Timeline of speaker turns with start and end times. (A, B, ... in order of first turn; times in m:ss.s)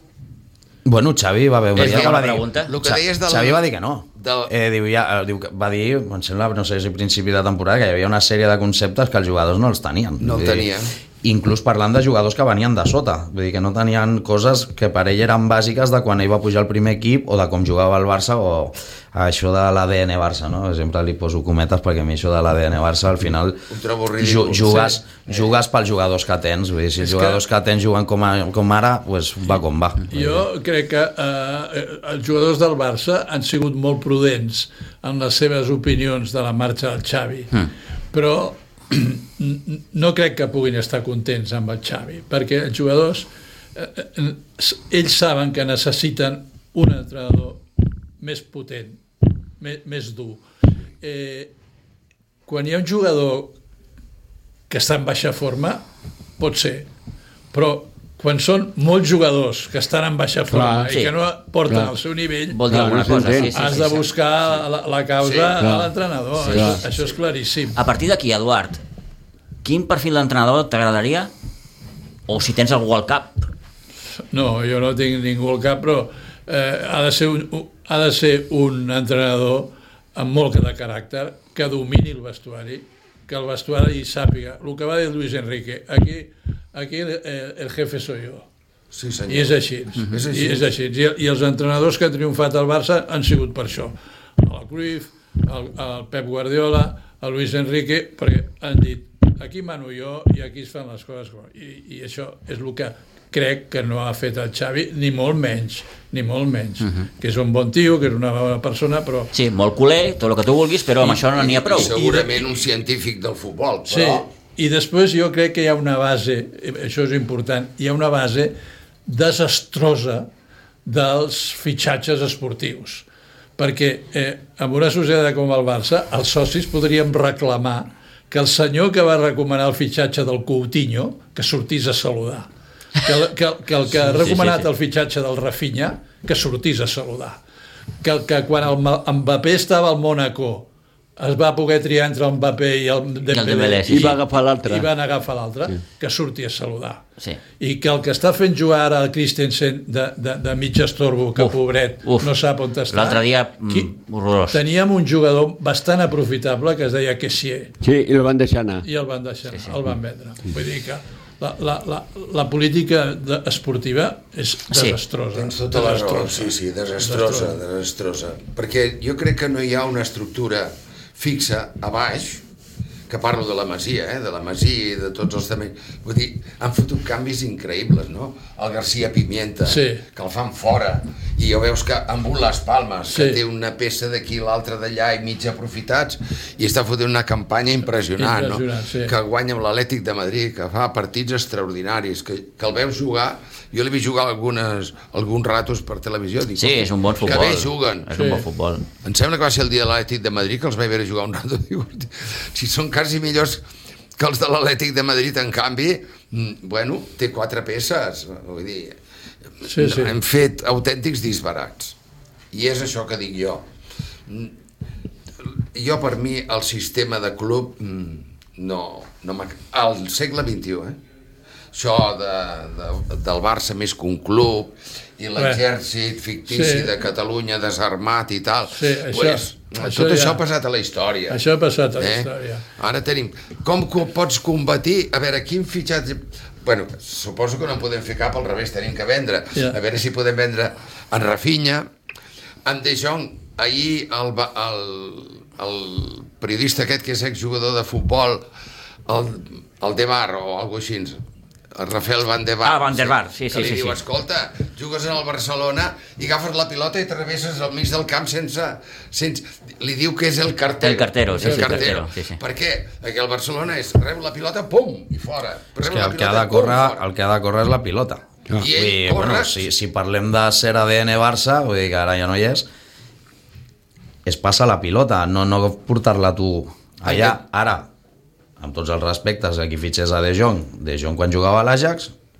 0:00.8-0:10.7 A
0:01.7-0:02.7 B
0:01.8-0:03.6 C
0:04.2-0:04.5 C
0:10.2-0:10.9 C
0:11.2-0:23.6 A
0:23.7-0:25.5 C
0:24.2-0:30.5 A
0:27.0-0:27.4 D
0:30.1-0:47.6 D
0:48.2-0:49.0 D
0:49.6-0:50.4 D
0:51.0-0:51.5 D
0:52.4-0:53.5 D
0:54.7-0:55.8 D
0:56.4-0:56.9 D
0:57.5-1:07.8 D
1:00.5-1:00.9 E
1:00.9-1:01.1 B
1:01.7-1:01.9 E
1:02.5-1:04.0 B
1:02.7-1:03.5 E
1:05.2-1:05.6 C
1:05.6-1:05.9 E
1:06.4-1:06.8 B
1:06.5-1:06.8 E
1:07.7-1:08.8 B
1:09.6-1:11.3 B
1:12.3-1:13.4 B
1:14.3-1:28.4 D
1:28.9-1:30.7 C
1:29.3-1:49.3 D
1:46.8-1:47.1 B
1:49.3-1:52.5 B
1:51.0-1:54.2 C
1:53.9-2:00.3 D
2:00.8-2:03.0 D
2:03.6-2:12.5 D
2:13.0-2:17.4 D
2:14.0-2:14.7 B
2:18.0-2:20.6 D
2:21.2-2:27.0 D
2:23.3-2:24.2 B
2:23.8-2:24.9 E
2:27.6-2:33.9 D
2:31.4-2:32.3 B
2:32.9-2:34.6 B
2:34.5-2:37.7 D
2:37.8-2:38.8 E
2:38.8-2:47.6 D
2:39.5-2:39.8 B
2:44.7-2:45.0 B
2:45.3-2:52.4 C
2:53.1-3:18.1 C
2:59.6-3:00.0 D
3:03.1-3:03.4 D
3:08.2-3:09.1 D
3:16.6-3:18.8 B
3:18.1-3:18.4 D
3:19.0-3:23.6 C
3:24.2-3:29.0 C
3:29.6-3:32.0 C
3:29.6-3:30.1 D
3:32.5-3:33.6 C
3:34.3-3:34.5 C
3:35.7-3:41.0 C
3:41.7-3:51.4 C
3:45.4-3:45.6 D
3:46.5-3:46.9 D
3:48.7-3:50.4 D
3:51.3-3:52.6 D
3:52.0-4:01.9 C
4:02.6-4:08.4 C
4:09.0-4:11.2 C
4:11.7-4:27.0 C
4:12.6-4:14.0 B
4:20.8-4:22.4 B
4:21.4-4:21.8 D
4:25.8-4:32.6 A
4:28.6-4:29.6 C
4:34.2-4:37.9 A
4:38.6-4:42.1 A